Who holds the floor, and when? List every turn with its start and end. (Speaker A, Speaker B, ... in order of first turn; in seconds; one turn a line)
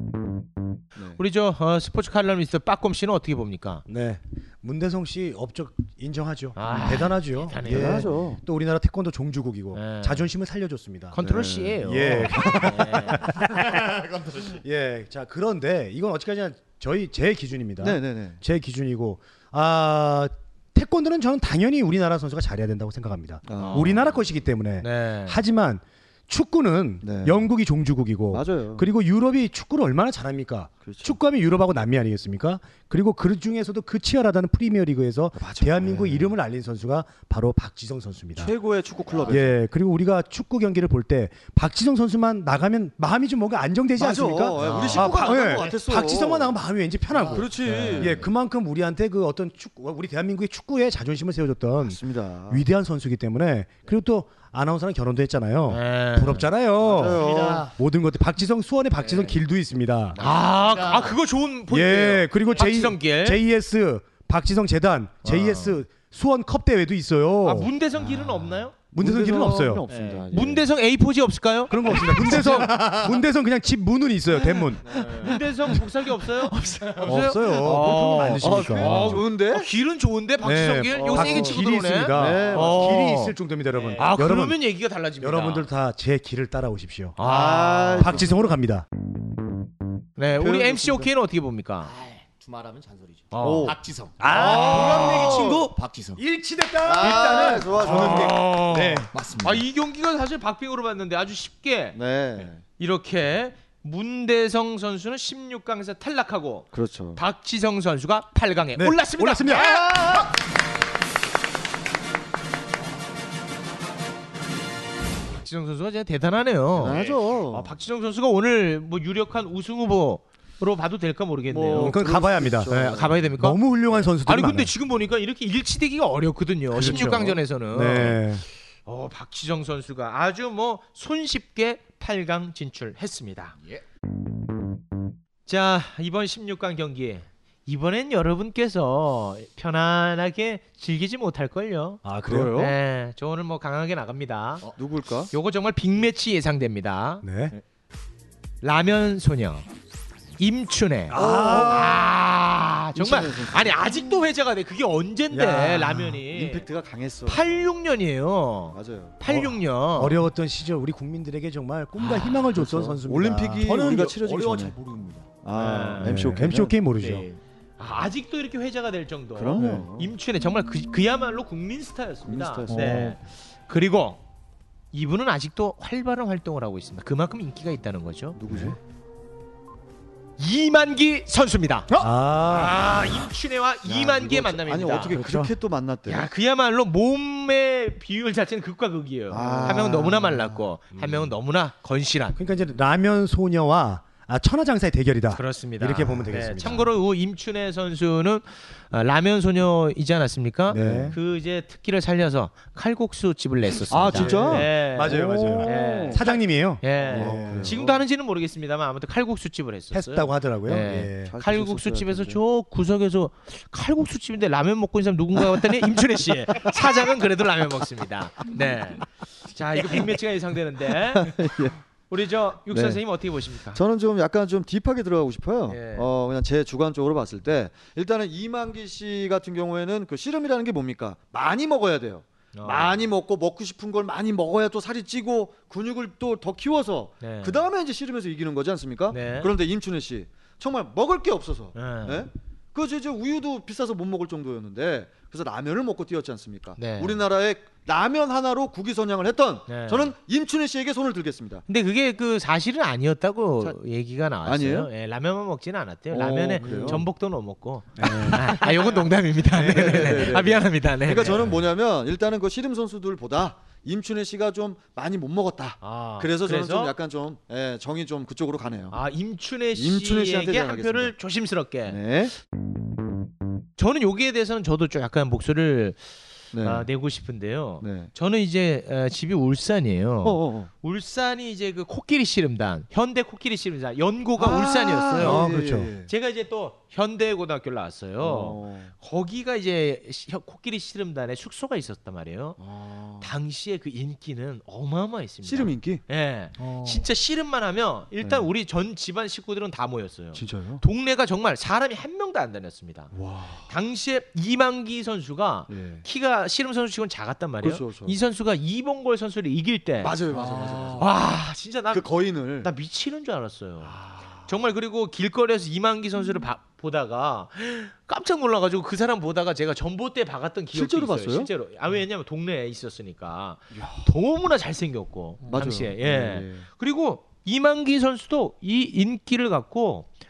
Speaker A: 1.2-3.8
Speaker B: 3.9-11.2
Speaker A: 6.5-8.1
Speaker C: 7.6-8.4
Speaker A: 9.7-10.3
Speaker A: 11.1-13.3
Speaker C: 11.2-12.7
Speaker B: 11.8-38.5
Speaker D: 13.8-14.3
Speaker C: 17.8-18.4
Speaker C: 23.5-24.0
Speaker A: 23.6-24.1
Speaker A: 24.8-25.4
Speaker C: 27.0-27.4
Speaker C: 28.3-28.9
Speaker C: 30.8-31.1
Speaker C: 35.4-36.3
Speaker C: 38.4-39.6
Speaker B: 39.3-60.2
Speaker C: 44.0-46.5
Speaker A: 44.6-45.5
Speaker D: 47.1-48.2
Speaker C: 47.3-48.2
Speaker C: 51.8-52.6
Speaker A: 55.7-56.5
Speaker C: 56.8-57.7
Speaker D: 57.0-57.7
Speaker C: 60.1-60.4
Speaker A: 60.2-63.4
Speaker D: 60.6-61.1
Speaker B: 61.7-67.7
Speaker A: 65.2-65.8
Speaker A: 67.4-68.7
Speaker B: 68.9-69.8
Speaker C: 69.0-70.7
Speaker D: 69.9-70.4
Speaker A: 70.3-72.7
Speaker B: 71.7-74.9
Speaker D: 72.0-73.2
Speaker D: 74.8-75.4
Speaker C: 74.9-75.2
Speaker A: 75.2-83.3
Speaker D: 76.7-77.1
Speaker B: 77.0-79.2
Speaker C: 77.6-79.7
Speaker B: 80.4-84.6
Speaker C: 81.0-81.6
Speaker C: 82.1-83.0
Speaker A: 84.0-85.7
Speaker B: 85.2-87.2
Speaker A: 87.2-88.1
Speaker C: 87.2-88.3
Speaker B: 88.0-88.8
Speaker A: 90.2-91.9
Speaker C: 90.4-91.1
Speaker D: 91.9-96.2
Speaker A: 93.3-93.7
Speaker C: 93.4-93.8
Speaker B: 94.2-99.1
Speaker C: 94.3-95.7
Speaker C: 96.8-98.4
Speaker A: 97.8-102.0
Speaker D: 98.8-99.6
Speaker C: 101.9-102.6
Speaker A: 102.8-109.7
Speaker C: 106.7-107.2
Speaker B: 108.8-110.2
Speaker A: 115.4-122.0
Speaker C: 116.8-117.7
Speaker C: 121.5-123.3
Speaker B: 121.8-122.7
Speaker A: 122.7-123.6
Speaker B: 123.4-124.7
Speaker A: 124.2-128.2
Speaker B: 126.7-128.4
Speaker A: 128.8-133.5
Speaker A: 135.5-144.7
Speaker B: 142.0-142.6
Speaker C: 142.3-142.8
Speaker C: 144.8-145.3
Speaker A: 145.3-147.2
Speaker B: 147.2-147.5
Speaker A: 148.6-149.7
Speaker A: 150.4-156.6
Speaker B: 151.1-152.0
Speaker C: 151.1-152.0
Speaker C: 152.9-154.2
Speaker B: 155.3-156.2
Speaker C: 156.3-157.4
Speaker A: 157.3-160.2
Speaker C: 158.7-159.2
Speaker B: 159.2-164.1
Speaker A: 162.0-162.5
Speaker C: 162.5-164.7
Speaker D: 163.7-165.3
Speaker C: 165.4-166.7
Speaker A: 165.5-166.3
Speaker B: 166.0-167.3
Speaker D: 166.9-167.4
Speaker A: 167.8-174.2
Speaker C: 169.3-170.1
Speaker B: 169.6-169.8
Speaker C: 172.3-173.2
Speaker D: 172.7-173.1
Speaker A: 174.9-178.4
Speaker C: 178.4-178.8
Speaker B: 178.5-178.8
Speaker A: 180.4-181.9
Speaker B: 182.0-182.8
Speaker A: 182.5-185.2
Speaker C: 183.9-186.3
Speaker B: 185.0-185.5
Speaker A: 186.1-192.4
Speaker C: 189.3-190.6
Speaker B: 189.4-189.9
Speaker B: 190.9-191.3
Speaker B: 192.4-196.9
Speaker A: 195.3-206.3
Speaker B: 200.7-201.2
Speaker C: 200.7-201.2
Speaker C: 203.9-206.2
Speaker B: 204.1-207.8
Speaker A: 206.8-221.3
Speaker C: 207.0-208.0
Speaker B: 209.9-211.3
Speaker C: 211.2-212.4
Speaker C: 221.1-221.8
Speaker A: 222.1-223.8
Speaker C: 222.7-223.0
Speaker C: 223.7-251.6
Speaker A: 225.7-226.1
Speaker A: 232.5-232.9
Speaker A: 237.2-237.6
Speaker A: 239.1-239.5
Speaker A: 241.7-242.3
Speaker A: 246.8-247.2
Speaker A: 249.7-250.1
Speaker A: 251.7-261.5
Speaker C: 254.4-254.9
Speaker C: 256.1-257.0
Speaker B: 256.6-257.1
Speaker B: 258.0-258.6
Speaker C: 259.5-269.0
Speaker B: 259.6-260.3
Speaker A: 265.8-266.9
Speaker A: 268.9-272.0
Speaker C: 269.7-271.1
Speaker C: 271.9-272.3
Speaker A: 273.8-276.0
Speaker C: 276.5-276.9
Speaker A: 276.6-285.4
Speaker C: 277.8-278.1
Speaker C: 280.2-280.7
Speaker C: 284.4-286.1
Speaker B: 285.2-285.9
Speaker A: 286.1-292.6
Speaker C: 288.2-288.9
Speaker C: 292.6-293.2
Speaker A: 293.2-303.1
Speaker C: 295.4-296.0
Speaker C: 298.2-298.5
Speaker C: 300.3-300.8
Speaker C: 303.1-303.7
Speaker A: 303.7-310.1
Speaker C: 305.7-306.0
Speaker C: 307.6-308.2
Speaker C: 310.0-311.1
Speaker D: 310.3-311.0
Speaker A: 311.0-312.1
Speaker C: 311.9-312.7
Speaker A: 312.6-330.1
Speaker C: 313.8-314.5
Speaker C: 320.7-321.5
Speaker C: 323.7-324.1
Speaker C: 325.4-326.7